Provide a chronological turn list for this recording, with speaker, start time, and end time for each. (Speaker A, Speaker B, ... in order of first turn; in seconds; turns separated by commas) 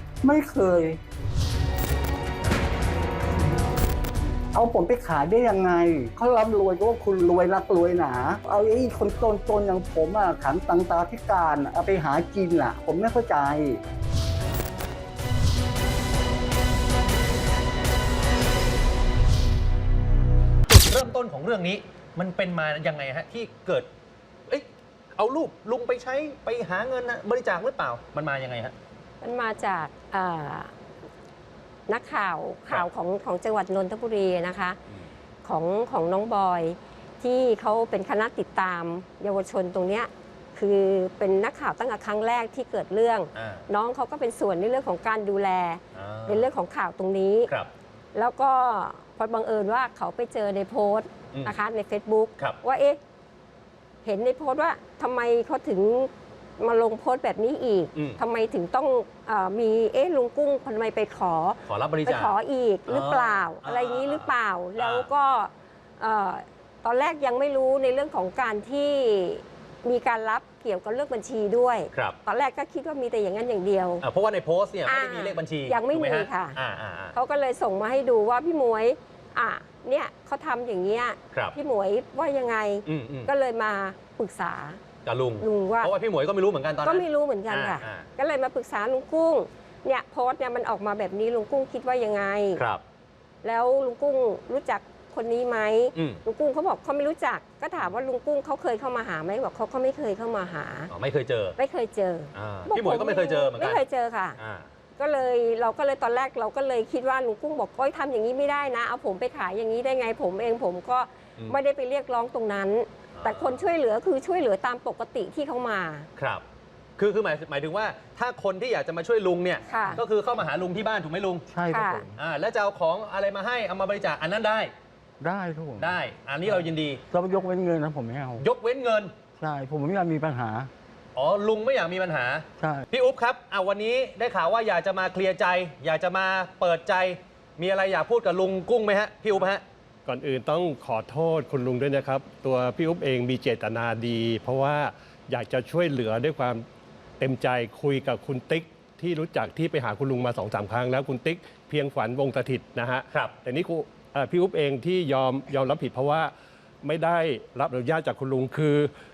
Speaker A: 0.2-1.0, Speaker A: 4.5-13.8, Speaker B: 20.7-23.9, Speaker B: 24.5-28.7, Speaker C: 29.2-30.7, Speaker C: 31.9-34.8, Speaker C: 35.4-47.5, Speaker B: 43.4-43.7, Speaker B: 45.9-46.5, Speaker C: 48.1-53.0, Speaker C: 54.0-74.0, Speaker B: 58.0-58.2, Speaker B: 61.7-62.4, Speaker B: 62.9-65.1, Speaker B: 74.0-77.2, Speaker C: 74.9-76.6, Speaker C: 77.1-84.8, Speaker B: 82.9-83.3, Speaker B: 85.0-88.1, Speaker C: 85.4-85.9, Speaker C: 86.8-92.6, Speaker B: 92.6-92.8, Speaker C: 93.4-100.9, Speaker B: 96.0-96.2, Speaker B: 100.9-101.6, Speaker C: 101.6-104.4, Speaker B: 102.3-103.8, Speaker B: 104.4-104.7, Speaker C: 105.0-116.1, Speaker B: 113.2-113.7, Speaker B: 116.2-116.4, Speaker B: 117.0-121.5, Speaker C: 119.7-120.0, Speaker A: 121.5-122.1, Speaker C: 121.7-122.1, Speaker B: 122.2-124.7, Speaker A: 125.2-126.0, Speaker B: 125.8-127.0, Speaker A: 127.1-128.5, Speaker B: 128.4-129.1, Speaker A: 129.4-130.7, Speaker B: 131.2-139.6, Speaker A: 132.6-132.9, Speaker D: 140.1-146.6, Speaker D: 147.2-156.3, Speaker D: 156.8-158.9